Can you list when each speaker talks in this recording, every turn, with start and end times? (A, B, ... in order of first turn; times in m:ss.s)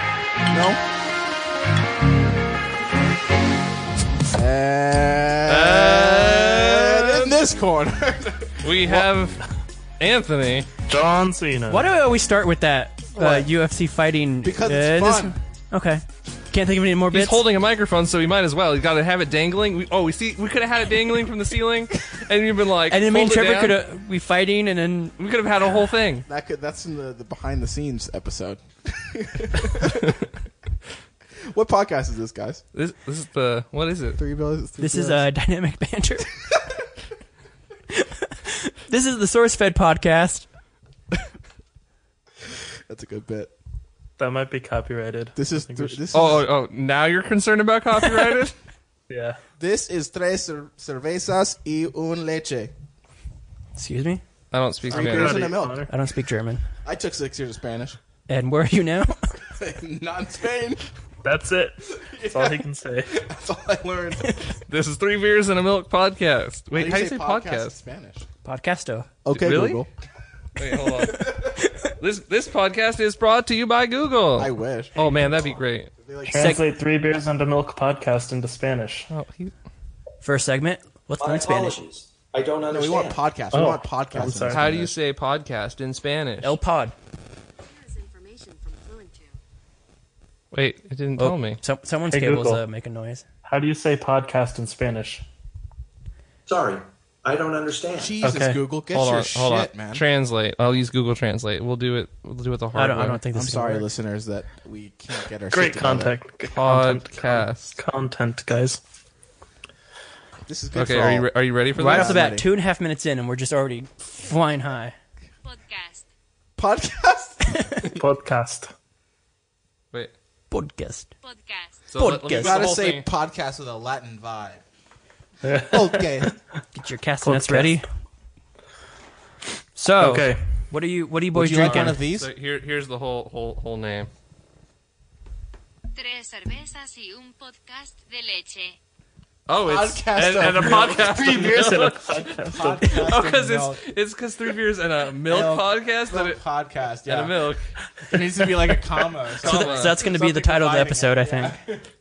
0:00.5-0:00.8 A
0:04.3-0:09.1 A
0:05.5-0:07.3 B
0:08.6-0:09.4 B
0:10.0-0:10.7 B
0:10.9-0:11.9 C
0:11.7-0:17.4 D
0:13.1-0:13.5 A
0:14.4-0:15.4 A
0:17.1-0:23.8 B
0:22.9-0:25.1 D
0:25.2-0:26.2 B
0:26.2-0:30.2 A
0:31.5-0:32.6 A
0:32.7-0:34.2 B
0:34.2-0:35.3 A
0:34.8-0:36.3 D
0:36.5-0:36.8 A
0:37.9-0:40.4 D
0:42.5-0:43.5 A
0:44.2-0:46.0 C
0:45.4-0:46.4 A
0:46.1-0:48.6 B
0:49.1-0:49.4 C
0:49.6-0:52.7 A
0:53.8-0:54.2 D
0:54.5-0:55.5 B
0:54.9-0:55.9 A
0:54.9-0:55.9 C
0:55.9-0:56.6 D
0:56.8-0:58.0 A
0:58.3-0:59.2 D
0:59.5-1:00.8 A
1:01.2-1:03.1 C
1:02.0-1:04.5 A
1:04.7-1:07.7 B
1:06.7-1:08.2 A
1:08.4-1:09.1 D
1:09.2-1:09.9 A
1:09.3-1:09.8 B
1:10.6-1:15.9 B
1:11.1-1:11.5 A
1:14.4-1:16.6 A
1:15.0-1:15.4 C
1:16.2-1:19.1 C
1:16.3-1:16.6 D
1:19.1-1:19.5 B
1:20.2-1:21.8 D
1:21.2-1:23.2 E
1:22.7-1:25.0 A
1:23.5-1:24.7 C
1:24.5-1:26.6 B
1:26.4-1:26.9 D
1:27.6-1:29.4 F
1:30.5-1:31.6 B
1:31.2-1:33.2 D
1:32.1-1:32.6 C
1:33.4-1:35.2 C
1:36.5-1:38.1 E
1:38.0-1:40.0 A
1:38.2-1:38.6 C
1:38.9-1:43.2 B
1:42.7-1:43.8 D
1:43.3-1:46.1 A
1:45.5-1:48.8 C
1:46.5-1:47.7 B
1:50.5-1:52.5 A
1:50.7-1:52.2 B
1:51.8-1:54.9 D
1:55.4-1:56.0 F
1:56.6-1:57.8 A
1:58.0-1:58.7 C
2:00.5-2:01.1 D
2:01.2-2:01.9 F
2:01.9-2:03.0 B
2:02.0-2:02.6 D
2:02.4-2:04.6 A
2:05.4-2:06.3 C
2:05.7-2:06.3 A
2:06.7-2:07.8 D
2:07.2-2:07.8 C
2:09.8-2:12.0 D
2:10.0-2:10.4 C
2:11.3-2:12.3 A
2:11.6-2:14.1 B
2:15.9-2:18.8 F
2:19.5-2:22.1 B
2:19.6-2:23.8 A
2:20.6-2:23.1 C
2:22.9-2:26.4 B
2:25.2-2:27.5 A
2:27.1-2:27.7 B
2:28.1-2:31.8 A
2:29.4-2:30.0 B
2:29.4-2:31.6 D